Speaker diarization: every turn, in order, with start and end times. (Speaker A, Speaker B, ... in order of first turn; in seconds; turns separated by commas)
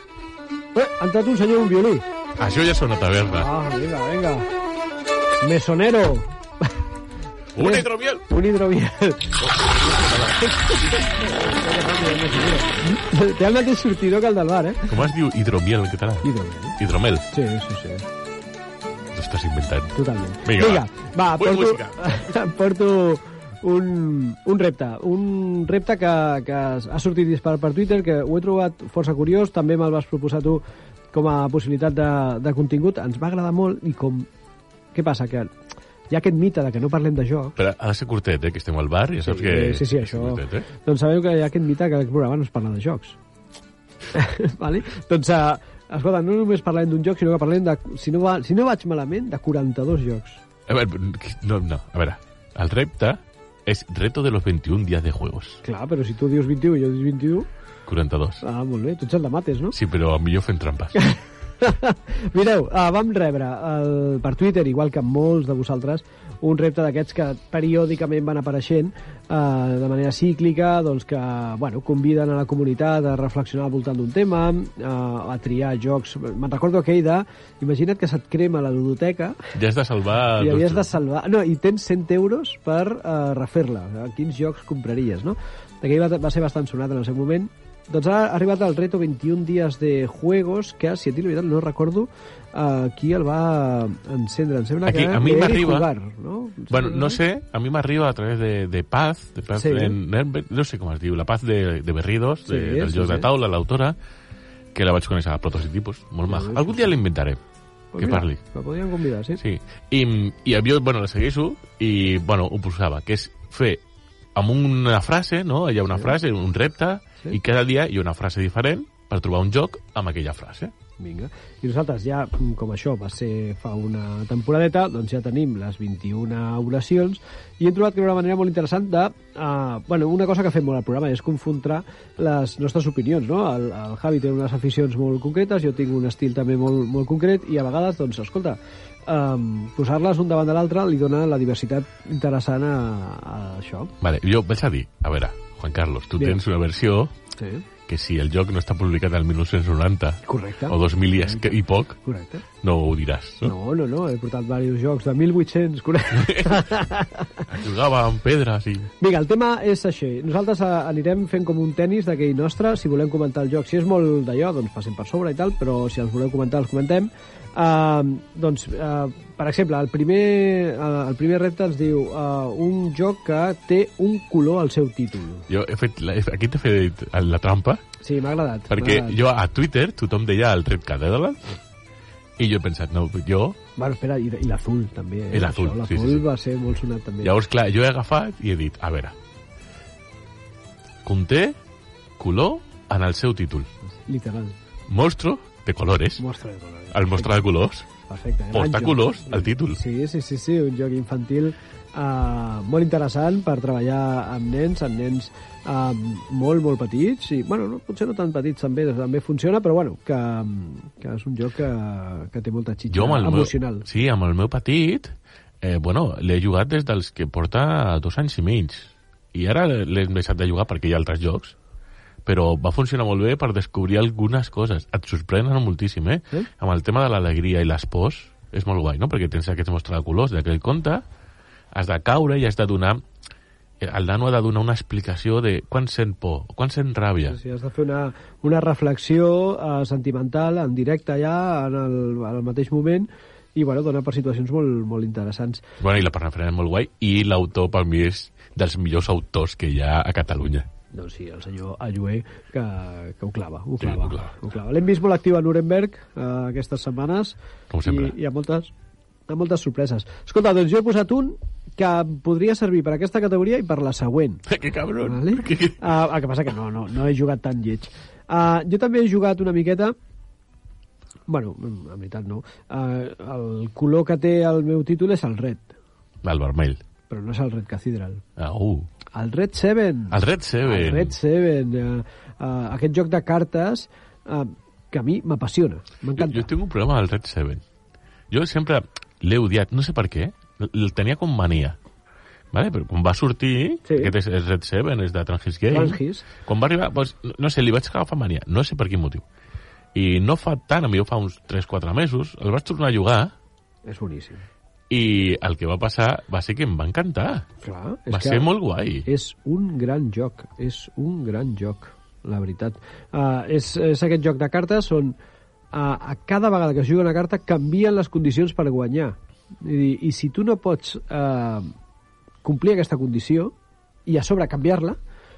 Speaker A: 0.8-2.0, Speaker B: 2.4-3.5, Speaker A: 3.2-4.5, Speaker A: 5.4-6.8, Speaker B: 7.5-8.2, Speaker A: 7.6-15.0, Speaker B: 9.4-10.5, Speaker B: 14.9-17.2, Speaker A: 16.2-16.8, Speaker A: 17.3-18.1, Speaker B: 19.1-22.1, Speaker A: 19.9-34.3, Speaker A: 34.9-35.5, Speaker A: 36.1-37.6, Speaker B: 37.6-40.7, Speaker A: 39.2-43.2, Speaker A: 44.1-50.4, Speaker B: 50.7-55.6, Speaker A: 55.6-57.5, Speaker B: 57.9-58.4, Speaker A: 58.4-59.8, Speaker B: 59.7-61.0, Speaker A: 61.0-79.5, Speaker B: 79.5-80.9, Speaker A: 80.4-97.2, Speaker B: 94.8-95.9, Speaker B: 96.7-104.0, Speaker A: 99.5-100.0, Speaker A: 102.5-103.3, Speaker B: 104.7-107.4, Speaker A: 106.3-106.9, Speaker A: 107.9-109.4, Speaker B: 108.0-108.4, Speaker B: 109.4-113.8, Speaker B: 114.3-120.7, Speaker A: 121.0-143.9, Speaker B: 144.0-147.1, Speaker A: 147.3-147.7, Speaker B: 147.9-152.0, Speaker A: 150.2-152.5, Speaker B: 152.6-153.5, Speaker A: 153.4-157.5, Speaker B: 156.1-156.7, Speaker B: 157.5-158.9, Speaker A: 159.0-175.5, Speaker B: 175.5-177.8, Speaker A: 178.0-179.2, Speaker B: 178.7-181.6, Speaker B: 182.4-183.6, Speaker A: 183.8-187.3, Speaker B: 185.3-186.2, Speaker B: 187.2-189.2, Speaker B: 191.0-191.6, Speaker B: 192.2-193.7, Speaker A: 194.1-194.6, Speaker B: 194.9-196.2, Speaker A: 196.2-197.5, Speaker B: 196.9-197.9, Speaker A: 198.0-213.8, Speaker B: 198.5-199.8, Speaker B: 212.9-221.5, Speaker B: 222.2-231.0, Speaker B: 231.7-233.0, Speaker B: 233.8-237.4, Speaker A: 237.3-245.7, Speaker B: 245.8-250.7, Speaker A: 250.9-258.7, Speaker B: 253.8-254.3, Speaker B: 257.7-258.1, Speaker A: 259.3-264.5, Speaker B: 264.5-265.8, Speaker A: 265.0-269.9, Speaker A: 271.3-275.8, Speaker B: 276.2-276.8, Speaker A: 277.1-278.2, Speaker B: 278.4-278.9, Speaker A: 279.1-286.5, Speaker B: 280.1-281.2, Speaker B: 286.2-287.6, Speaker B: 288.3-291.8, Speaker B: 292.5-299.2, Speaker A: 293.8-294.1, Speaker A: 295.7-296.3, Speaker B: 299.9-303.3, Speaker A: 303.8-304.4, Speaker B: 304.9-307.5, Speaker A: 307.6-308.5, Speaker B: 308.1-309.1, Speaker A: 309.0-315.1, Speaker A: 315.7-321.7, Speaker A: 322.4-323.5, Speaker A: 324.1-325.0